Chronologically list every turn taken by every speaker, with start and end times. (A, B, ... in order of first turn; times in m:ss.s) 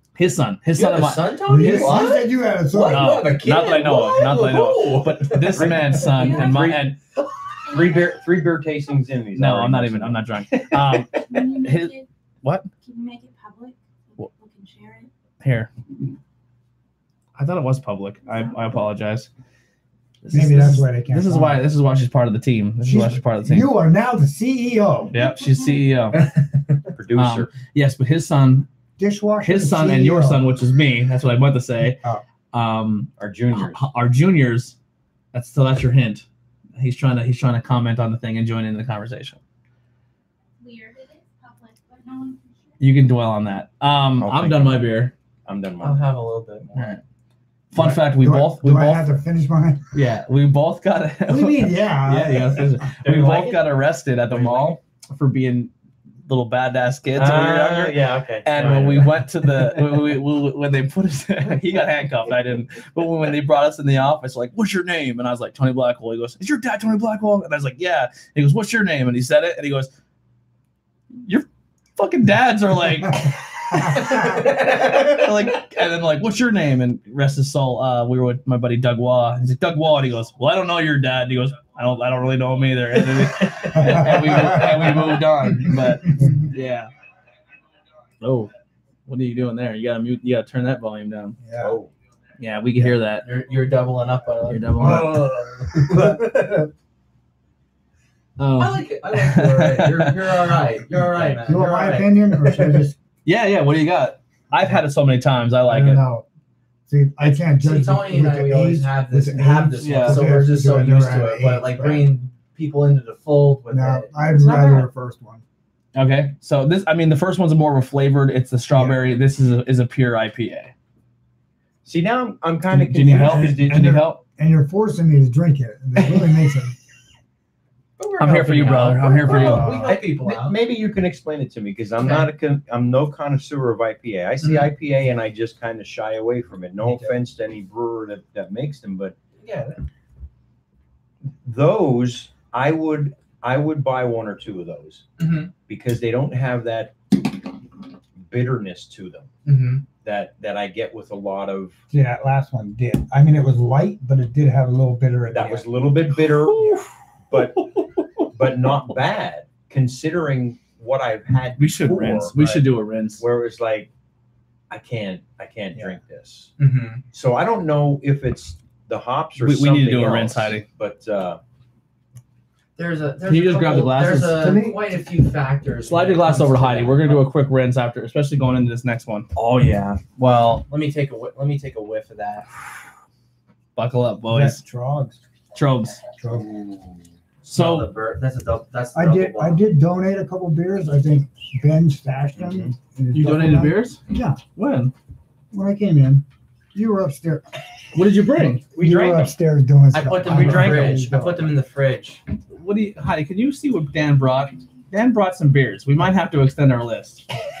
0:00.2-0:02.1 A
0:00.7-0:04.9 B
0:01.4-0:03.3 C
0:02.7-0:06.9 D
0:02.9-0:07.0 A
0:06.2-0:06.7 E
0:07.7-0:08.1 E
0:07.7-0:10.7 D
0:09.3-0:12.7 A
0:11.3-0:12.0 E
0:12.8-0:15.1 E
0:15.4-0:15.7 A
0:17.4-0:19.3 A
0:20.2-0:23.7 A
0:20.3-0:21.6 C
0:22.8-0:25.1 C
0:25.1-0:26.2 A
0:25.2-0:25.6 E
0:26.9-0:27.5 D
0:27.1-0:28.7 A
0:29.0-0:30.4 C
0:29.4-0:32.0 A
0:32.5-0:34.7 A
0:33.2-0:33.8 D
0:35.3-0:36.2 A
0:36.8-0:39.4 A
0:40.6-0:42.7 E
0:42.8-0:45.1 A
0:44.2-0:44.9 D
0:45.4-0:46.0 D
0:45.8-0:47.0 B
0:46.7-0:47.0 A
0:47.7-0:49.1 A
0:47.7-0:49.8 C
0:49.9-0:55.7 A
0:51.3-0:52.9 C
0:53.0-0:53.7 D
0:54.3-0:54.8 D
0:56.2-1:09.9 A
0:57.2-0:59.3 D
1:11.2-1:26.9 A
1:14.1-1:14.8 B
1:23.7-1:26.5 C
1:28.2-1:28.5 A
1:29.1-1:31.4 A
1:31.4-1:31.8 C
1:31.6-1:31.9 D
1:32.4-1:33.2 A
1:32.8-1:36.2 B
1:34.5-1:35.2 A
1:34.8-1:36.6 C
1:38.4-1:40.6 A
1:38.6-1:42.7 B
1:40.9-1:43.0 C
1:43.2-1:46.0 A
1:45.6-1:46.2 C
1:46.9-1:52.1 C
1:47.3-1:54.4 B
1:49.8-1:50.3 A
1:53.7-1:55.4 C
1:54.3-1:54.9 E
1:55.9-2:00.7 A
1:58.7-1:59.0 C
2:01.8-2:04.0 D
2:02.7-2:04.2 A
2:03.1-2:06.8 C
2:08.0-2:10.6 B
2:08.2-2:09.7 A
2:09.2-2:10.0 C
2:09.6-2:19.2 D
2:12.0-2:12.3 B
2:14.4-2:14.7 B
2:16.8-2:17.2 C
2:19.4-2:19.8 B
2:21.4-2:25.0 D
2:25.2-2:25.5 B
2:25.7-2:26.9 D
2:28.2-2:29.3 D
2:29.4-2:29.9 B
2:29.9-2:31.8 D
2:31.9-2:35.7 C
2:35.3-2:37.7 D
2:36.3-2:38.3 A
2:38.3-2:42.5 D
2:41.6-2:43.2 A
2:42.3-2:42.6 C
2:43.2-2:43.9 D
2:44.7-2:46.5 D
2:45.7-2:46.0 C
2:46.6-2:47.0 B
2:47.1-2:51.4 D
2:49.4-2:50.6 A
2:52.8-2:57.3 B
2:53.2-2:54.5 A
2:54.2-2:54.9 C
2:55.8-2:59.3 A
2:59.4-3:02.5 B
3:03.8-3:04.6 A
3:04.3-3:05.2 C
3:05.5-3:06.0 A
3:06.2-3:06.6 C
3:07.4-3:09.6 B
3:07.5-3:07.9 A
3:08.9-3:14.4 C
3:13.1-3:14.0 A
3:14.5-3:14.9 A
3:15.5-3:17.4 C
3:17.9-3:18.6 A
3:18.4-3:21.6 C
3:18.7-3:19.4 D
3:19.9-3:22.2 B
3:20.4-3:20.7 A
3:22.5-3:27.2 A